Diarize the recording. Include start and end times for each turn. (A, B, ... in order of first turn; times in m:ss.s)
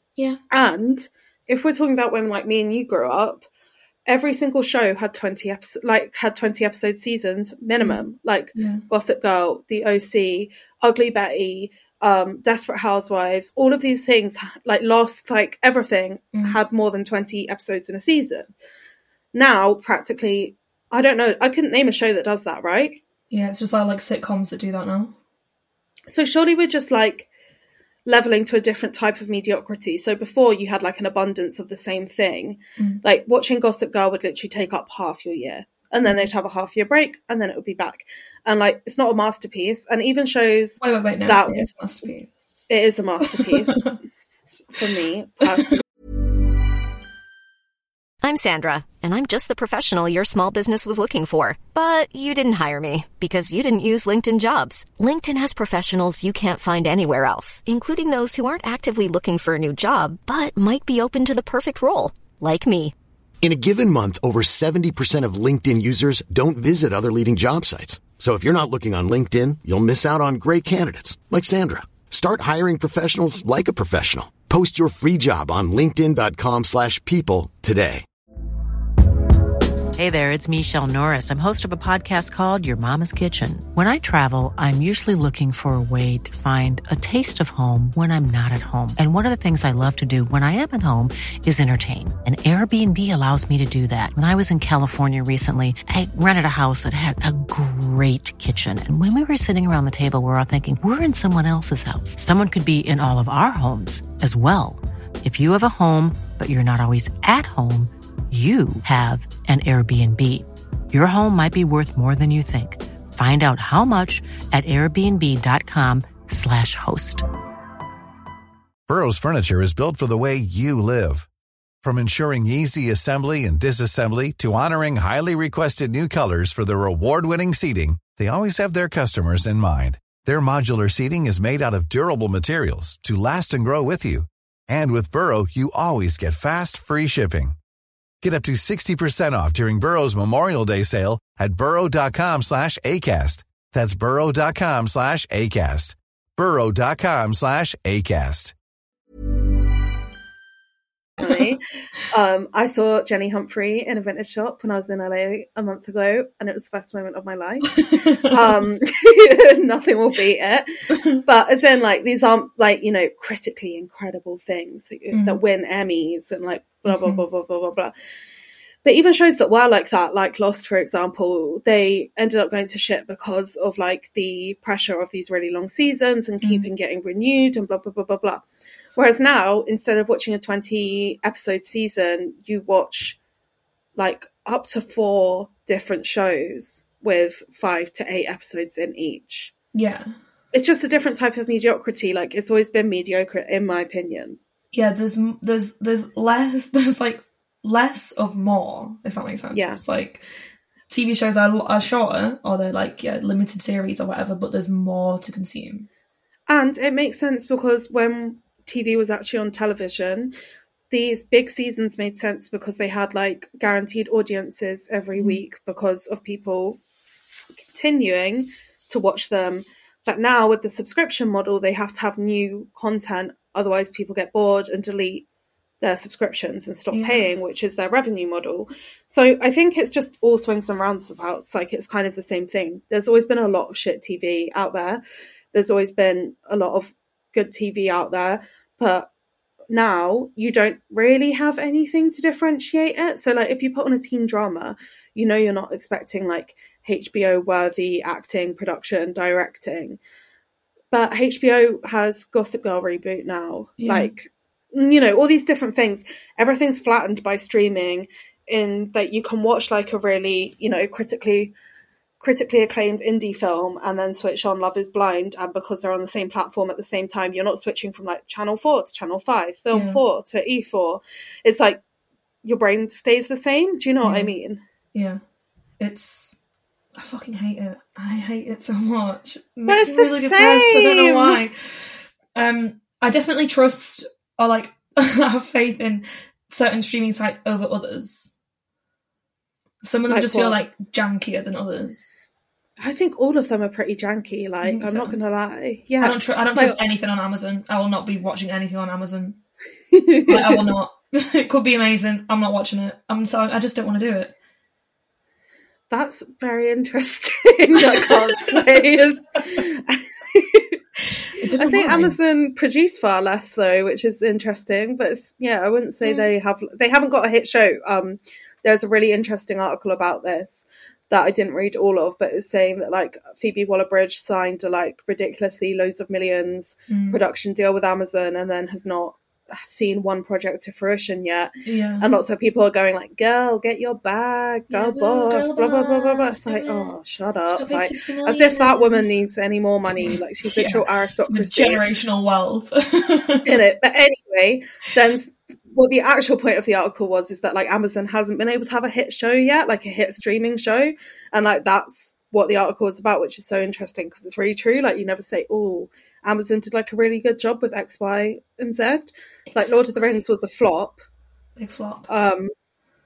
0:00.5-0:03.4 A
0:04.1-0:18.5 A
0:07.8-0:08.0 B
0:08.5-0:08.8 B
0:19.3-0:23.0 A
0:23.3-0:25.1 B
0:26.1-0:27.3 A
0:28.0-0:41.6 A
0:40.8-0:42.7 B
0:42.7-0:44.0 A
0:44.5-0:45.8 A
0:48.2-1:02.9 C
1:03.4-1:18.0 D
1:20.0-1:57.2 E
1:58.9-2:01.3 F
2:01.8-2:17.5 F
2:18.2-2:28.5 F
2:31.2-2:47.9 A
2:37.7-2:38.6 B
2:45.1-2:45.4 B
2:46.9-2:47.2 B
2:48.8-2:58.4 A
2:56.4-2:56.7 B
2:59.0-3:03.2 A
3:04.0-3:09.5 A
3:09.7-3:10.1 B
3:10.5-3:14.4 A
3:14.7-3:20.2 B
3:19.5-3:19.8 A
3:20.9-3:25.9 B
3:26.5-3:30.3 A
3:30.9-3:36.8 A
3:37.7-3:45.2 A
3:45.8-3:55.0 A
3:46.9-3:47.3 B
3:55.5-3:59.1 A
3:59.7-4:10.0 A
4:10.9-4:21.5 A
4:13.8-4:14.1 B
4:22.2-4:31.8 A
4:29.7-4:30.0 B
4:32.4-4:34.6 A
4:34.0-4:34.3 B
4:34.9-4:35.2 B
4:35.8-4:36.4 B
4:37.0-4:48.3 B
4:39.7-4:41.4 A
4:49.8-4:52.2 B
4:50.1-4:50.6 A
4:52.8-4:56.8 A
4:54.6-4:55.2 B
4:56.0-4:59.4 B
4:59.9-5:00.6 A
5:00.3-5:04.3 B
5:05.9-5:10.8 A
5:11.4-5:12.2 B
5:11.6-5:41.8 A
5:26.9-5:27.2 B
5:31.6-5:32.2 B
5:34.7-5:36.9 B
5:37.5-5:39.1 B
5:40.0-5:43.6 B
5:43.4-6:01.0 A
5:59.5-5:59.8 B
6:01.6-6:02.1 B
6:02.1-6:02.5 A